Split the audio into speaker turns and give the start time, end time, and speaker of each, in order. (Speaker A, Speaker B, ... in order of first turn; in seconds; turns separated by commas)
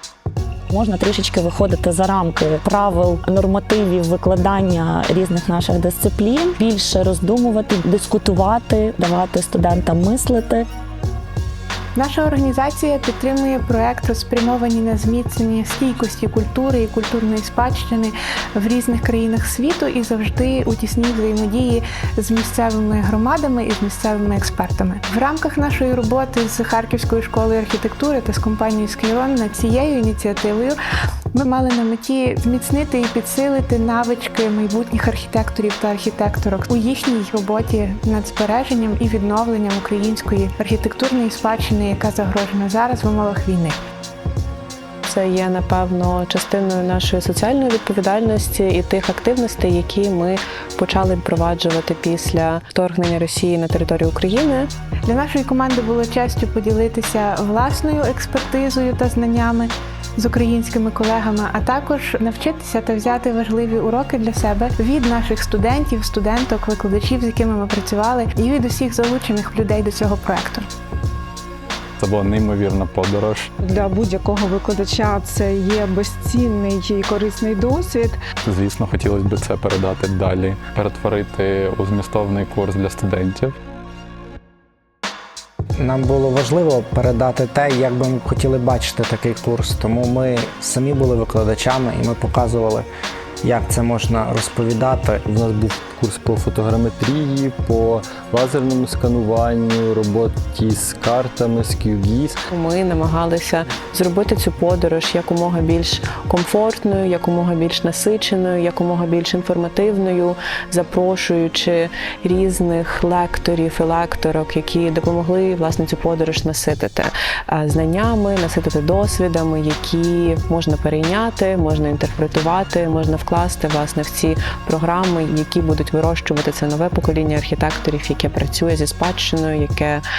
Speaker A: 0.7-10.7, Speaker B: 11.9-30.8, Speaker B: 31.3-43.8, Speaker C: 45.0-54.7, Speaker B: 55.0-70.7, Speaker D: 72.0-73.5, Speaker E: 73.7-78.2, Speaker D: 78.4-83.5, Speaker F: 85.8-92.9, Speaker F: 93.4-95.2, Speaker G: 95.3-102.3, Speaker C: 102.5-130.0